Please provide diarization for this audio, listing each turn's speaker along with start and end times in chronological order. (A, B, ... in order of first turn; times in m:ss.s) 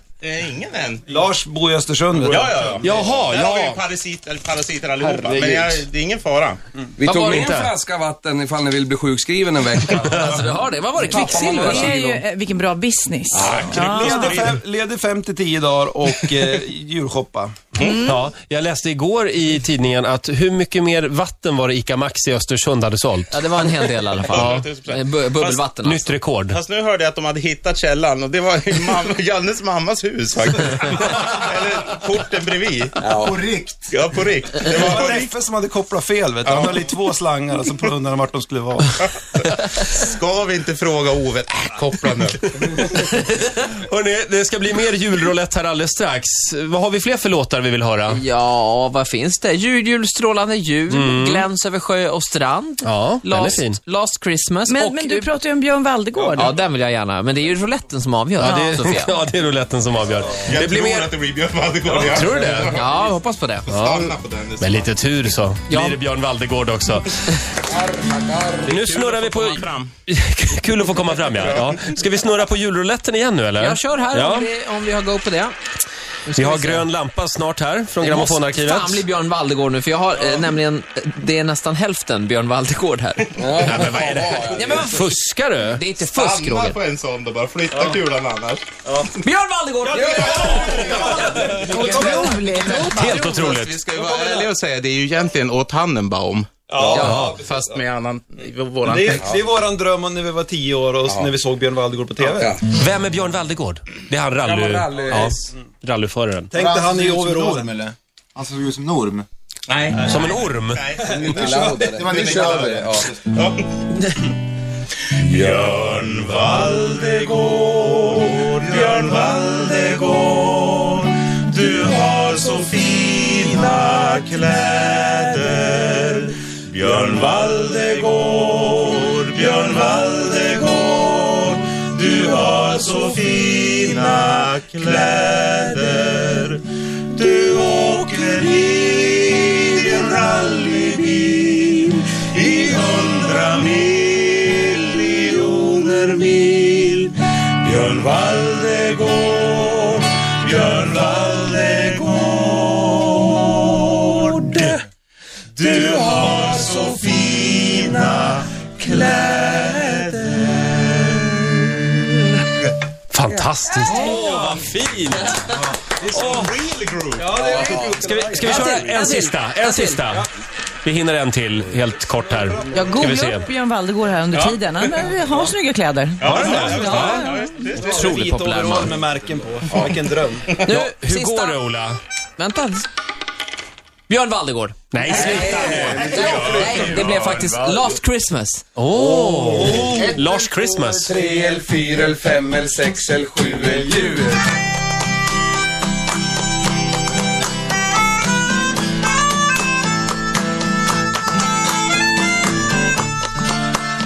0:00.2-0:01.0 A
0:01.1-0:02.6 B
0:02.2-0:06.6 A
0:02.8-0:03.8 C
0:07.0-0:10.4 D
0:07.0-0:07.4 E
0:07.3-0:07.7 C
0:10.1-0:12.2 E
0:11.1-0:14.5 F
0:11.1-0:11.9 D
0:13.3-0:14.6 A
0:13.6-0:17.5 B
0:17.8-0:23.3 C
0:17.8-0:18.2 F
0:23.3-0:26.2 E
0:24.2-0:25.6 A
0:24.3-0:24.7 C
0:25.8-0:26.6 C
0:26.5-0:33.0 A
0:33.0-0:33.4 D
0:33.2-0:33.9 G
0:33.9-0:35.3 A
0:34.8-0:38.9 B
0:36.4-0:36.8 A
0:39.0-0:42.7 A
0:43.4-0:48.2 C
0:48.1-0:55.3 E
0:50.9-0:51.4 C
0:52.8-0:53.8 C
0:54.7-0:56.6 F
0:56.3-0:59.1 E
0:58.4-1:01.1 C
0:58.4-0:58.7 F
1:00.4-1:02.9 A
1:01.9-1:02.8 C
1:02.6-1:03.6 E
1:03.7-1:04.9 A
1:03.7-1:07.1 C
1:05.7-1:06.0 E
1:07.7-1:08.7 D
1:08.6-1:14.5 C
1:08.7-1:09.9 A
1:13.6-1:15.6 E
1:16.2-1:16.9 E
1:16.3-1:19.0 C
1:18.0-1:23.4 E
1:23.4-1:24.9 D
1:23.5-1:25.8 C
1:23.7-1:24.2 A
1:24.5-1:26.8 E
1:26.0-1:29.2 A
1:29.2-1:32.1 E
1:29.9-1:31.2 D
1:30.0-1:30.6 A
1:31.3-1:31.7 C
1:31.7-1:32.4 D
1:31.8-1:33.1 F
1:31.9-1:32.4 B
1:32.6-1:33.8 C
1:33.0-1:39.4 A
1:33.9-1:34.5 B
1:36.8-1:37.2 D
1:36.9-1:37.4 C
1:38.8-1:42.5 B
1:39.2-1:39.4 D
1:41.0-1:41.3 D
1:42.2-1:42.6 D
1:42.7-1:46.6 C
1:44.4-1:45.4 D
1:46.5-1:47.9 B
1:46.5-1:49.2 G
1:49.7-1:51.8 A
1:50.0-1:50.8 C
1:51.0-1:51.8 B
1:51.0-1:53.2 D
1:51.3-1:53.1 G
1:53.2-1:53.7 A
1:55.2-2:34.8 A
2:35.6-2:41.4 A
2:43.1-2:45.4 C
2:43.3-2:44.2 D
2:46.0-2:47.8 A
2:46.1-2:46.5 C
2:47.2-2:48.8 B
2:47.3-2:48.7 D
2:48.2-2:50.3 C
2:48.5-2:49.2 F
2:49.0-2:50.0 E
2:50.8-2:53.5 C
2:52.3-2:52.9 B
2:52.7-2:57.5 F
2:54.3-2:55.5 A
2:56.2-2:58.2 A
2:56.2-2:57.2 B
2:56.4-2:57.2 C
2:57.7-3:00.5 B
2:57.8-2:59.0 E
3:00.6-3:01.6 E
3:00.7-3:02.0 C
3:02.4-3:02.9 E
3:04.1-3:08.7 E
3:04.9-3:06.2 C
3:05.1-3:08.0 A
3:05.8-3:06.8 D
3:08.8-3:11.2 C
3:08.9-3:09.7 D
3:09.5-3:11.3 G
3:11.0-3:14.4 D